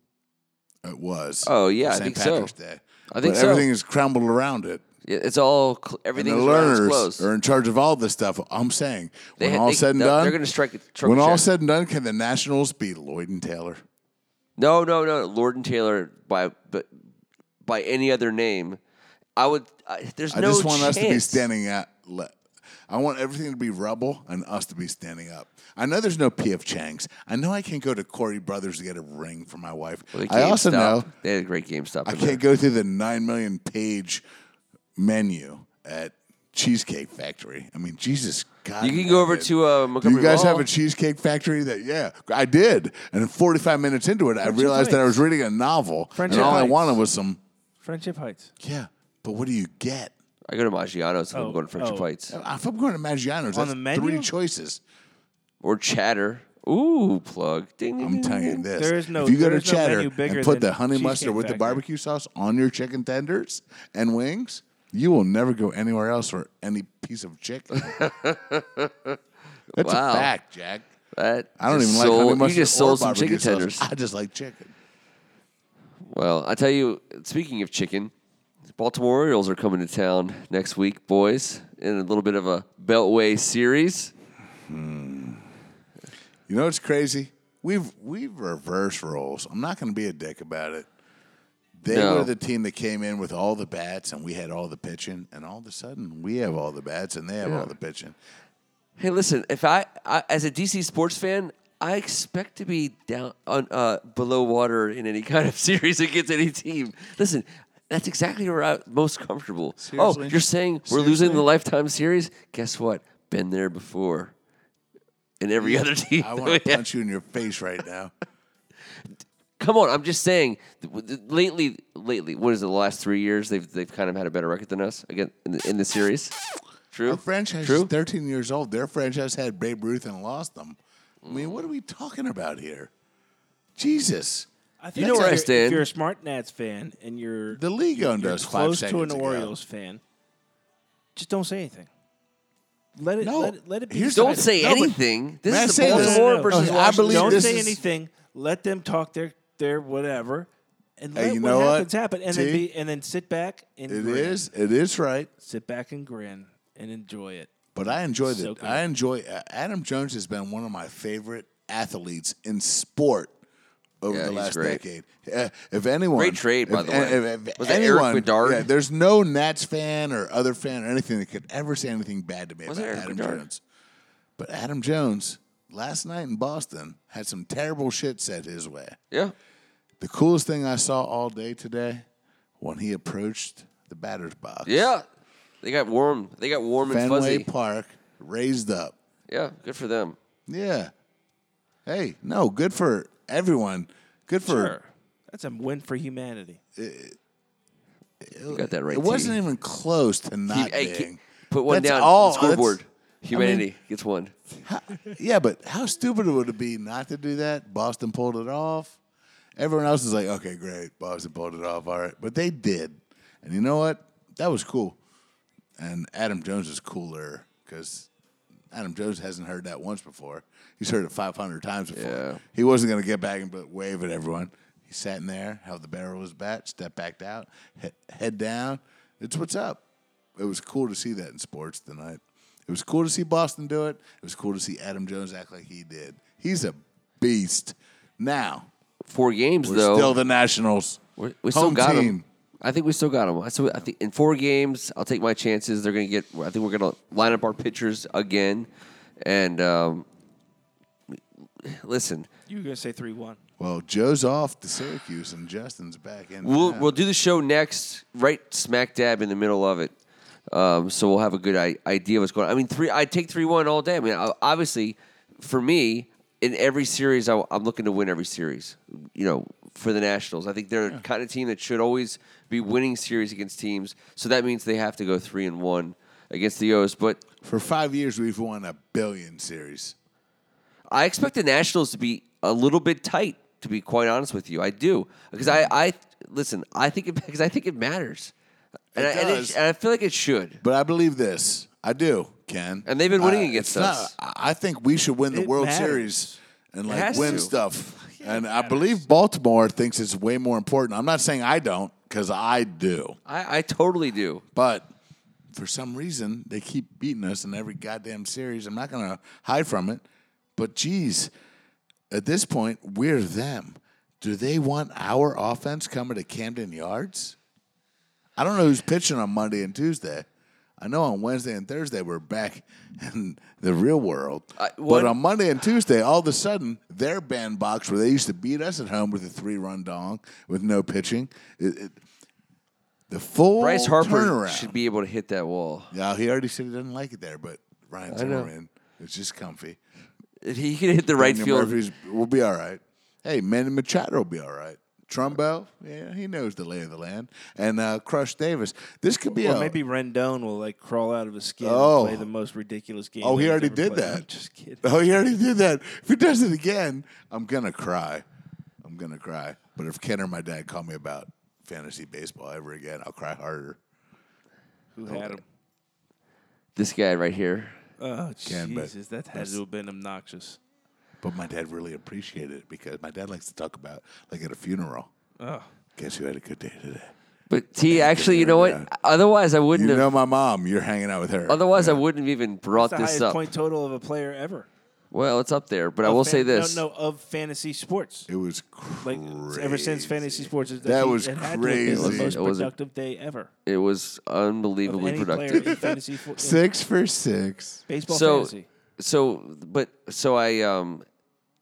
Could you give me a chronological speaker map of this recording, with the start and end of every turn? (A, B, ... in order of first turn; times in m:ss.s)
0:00.8-0:04.8 A
0:01.4-0:02.5 B
0:03.1-0:03.7 B
0:05.0-0:07.3 B
0:06.1-0:10.4 A
0:09.4-0:11.5 B
0:11.0-0:13.8 A
0:14.6-0:16.9 B
0:17.6-0:18.8 B
0:19.4-0:21.5 B
0:20.3-0:31.1 A
0:30.1-0:32.4 B
0:32.0-0:34.2 A
0:35.0-0:47.4 A
0:38.8-0:40.7 B
0:44.4-0:45.2 C
0:46.1-0:47.0 C
0:46.3-0:46.8 B
0:47.8-0:48.5 C
0:48.6-0:50.1 A
0:50.5-0:52.3 B
0:51.3-0:52.1 C
0:52.3-0:54.8 A
0:53.5-0:54.3 C
0:55.6-0:58.6 B
0:58.0-1:08.0 A
0:58.7-1:01.8 C
1:07.7-1:09.2 B
1:09.7-1:10.3 B
1:09.7-1:10.9 A
1:11.1-1:13.8 B
1:11.6-1:14.7 A
1:16.0-1:18.1 B
1:18.7-1:24.1 B
1:24.6-1:25.4 A
1:26.5-1:30.9 A
1:31.8-1:38.1 A
1:31.9-1:32.3 B
1:37.4-1:37.7 B
1:39.0-1:54.3 B
1:49.8-1:51.5 A
1:55.4-1:56.8 B
1:55.6-1:58.1 A
1:59.6-2:06.4 B
2:06.9-2:07.9 B
2:07.0-2:12.9 A
2:11.2-2:11.6 B
2:13.8-2:15.4 A
2:14.8-2:20.0 C
2:15.0-2:15.9 B
2:17.5-2:19.5 A
2:21.1-2:21.9 C
2:23.0-2:25.0 C
2:23.2-2:24.5 A
2:24.1-2:27.6 B
2:25.5-2:27.8 A
2:25.7-2:34.4 C
2:31.1-2:32.6 A
2:33.9-2:35.3 A
2:35.4-2:37.5 C
2:37.7-2:43.3 A
2:38.2-2:38.8 C
2:44.0-2:53.6 A
2:44.1-2:44.8 B
2:46.1-2:48.7 B
2:52.7-2:53.4 B
2:54.4-2:59.0 A
3:00.0-3:02.0 A
3:02.6-3:04.9 A
3:04.6-3:05.0 B
3:05.6-3:07.5 B
3:06.9-3:08.9 A
3:09.3-3:10.2 B
3:10.5-3:10.9 A
3:11.8-3:14.8 A
3:14.4-3:16.6 C
3:16.8-3:17.2 A
3:18.2-3:22.8 A
3:18.5-3:19.4 B
3:20.5-3:24.3 B
3:23.3-3:23.7 A
3:24.6-3:29.0 A
3:29.6-3:35.0 A
3:35.8-3:38.1 A
3:38.7-3:49.8 A
3:41.9-3:42.4 B
3:50.4-3:58.7 A
3:59.0-4:00.2 B
3:59.6-4:02.2 A
4:01.2-4:08.7 B
4:09.2-4:10.0 B
4:11.6-4:12.3 B
4:12.5-4:13.4 C
4:13.6-4:16.9 A
4:16.4-4:19.9 B
4:20.5-4:37.2 B
4:37.4-4:39.9 A
4:40.9-4:48.3 B
4:48.9-4:49.6 A
4:48.9-4:50.6 B
4:50.6-5:03.2 A
4:52.9-4:54.1 B
4:55.3-4:56.4 C
4:56.9-4:57.5 B
4:57.1-4:59.0 C
5:03.3-5:04.4 B
5:04.5-5:04.9 A
5:05.5-5:10.0 A
5:10.6-5:11.3 A
5:12.1-5:17.4 A
5:18.4-5:20.3 A
5:20.8-5:32.0 A
5:24.6-5:25.1 B
5:33.1-5:34.8 A
5:33.6-5:35.9 B
5:35.9-5:39.8 A
5:38.1-5:38.5 B
5:40.4-5:41.8 B
5:41.2-5:49.8 A
5:49.3-5:54.9 C
5:51.6-5:52.3 A
5:53.2-5:54.2 A
5:54.8-5:58.2 A
5:58.8-6:03.8 A
6:04.9-6:05.4 C
6:05.1-6:05.4 A
6:06.8-6:07.8 B
6:08.0-6:10.6 C
6:08.4-6:09.6 A
6:11.2-6:15.1 A
6:15.4-6:15.7 C
6:16.0-6:17.1 A
6:17.5-6:20.0 B
6:17.9-6:18.9 A
6:19.7-6:22.0 A
6:21.5-6:23.4 B
6:22.7-6:24.7 C
6:25.1-6:26.8 B
6:26.0-6:28.3 C
6:28.3-6:32.4 A
6:29.0-6:33.5 C
6:31.8-6:32.7 B
6:33.6-6:35.8 B
6:34.8-6:36.6 C
6:35.5-6:37.8 A
6:37.9-6:38.7 C
6:38.1-6:41.0 B